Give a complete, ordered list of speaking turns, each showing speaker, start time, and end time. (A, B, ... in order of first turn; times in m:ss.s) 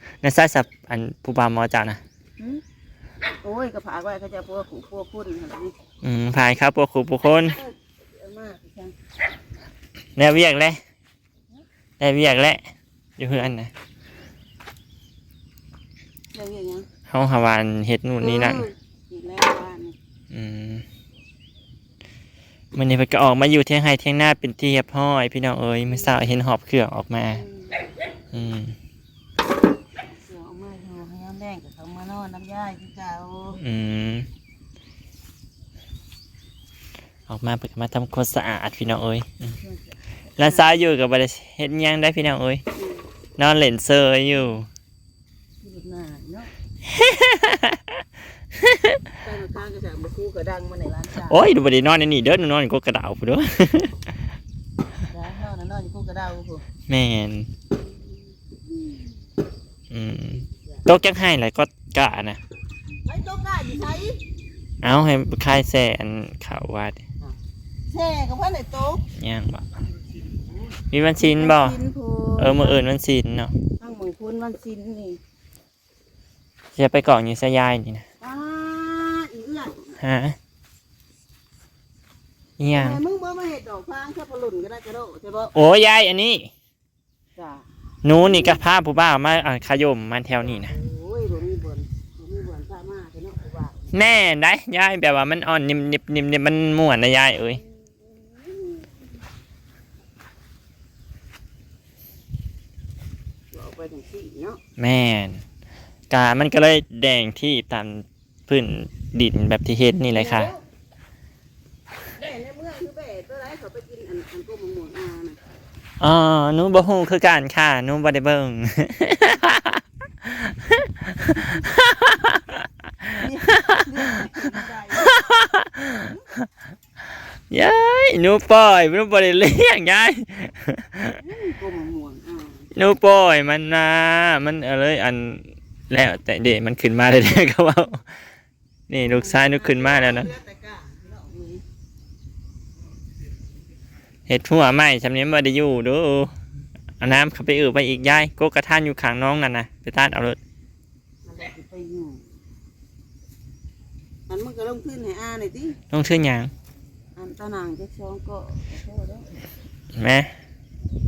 0:00.2-0:02.0 A
0:03.4-0:05.8 B
0:06.0-0:07.6 A
0:07.5-0:08.9 B
0:10.2-0:10.8 A
0:12.0-0:13.7 A
0:16.3-0:16.9 B
0:17.1-0:18.7 A
0:18.2-0:20.0 B
0:20.3-0:20.8 A
0:22.8-0:27.4 A
0:27.3-0:27.9 B
0:28.3-0:28.8 A
0:30.3-0:33.6 B
0:33.6-0:34.3 A
0:37.3-0:39.6 A
0:39.6-0:40.7 B
0:40.4-0:42.6 A
0:42.8-0:43.0 B
0:43.4-0:44.7 A
0:45.6-0:46.5 B
0:46.9-0:47.8 A
0:48.6-0:49.0 A
0:49.2-0:51.5 B
0:51.2-0:54.0 A
0:55.1-0:56.6 B
0:56.9-0:57.5 A
0:59.9-1:02.4 A
1:03.1-1:04.2 B
1:04.8-1:07.0 A
1:07.9-1:09.1 B
1:09.1-1:09.7 A
1:10.3-1:12.8 B
1:10.9-1:11.8 A
1:12.4-1:13.5 A
1:13.8-1:15.2 B
1:16.8-1:18.1 A
1:18.2-1:20.0 B
1:20.0-1:20.4 A
1:22.6-1:23.0 A
1:22.7-1:25.6 B
1:25.5-1:26.5 A
1:27.4-1:27.7 B
1:28.0-1:30.7 A
1:28.2-1:28.6 B
1:30.4-1:33.9 B
1:33.9-1:37.6 A
1:37.6-1:39.0 B
1:43.5-1:44.6 B
1:44.8-1:45.4 A
1:46.1-1:50.5 A
1:50.1-1:50.6 B
1:52.2-1:55.4 B
1:56.0-2:02.6 A
2:03.0-2:05.3 B
2:05.0-2:06.1 A
2:07.5-2:11.2 A
2:11.2-2:12.7 B
2:12.7-2:18.1 A
2:18.9-2:20.3 A
2:19.1-2:21.6 B
2:24.3-2:26.3 A
2:27.0-2:30.4 A
2:31.3-2:32.2 B
2:34.3-2:35.8 B
2:35.9-2:36.5 A
2:37.2-2:39.3 B
2:39.9-2:40.3 A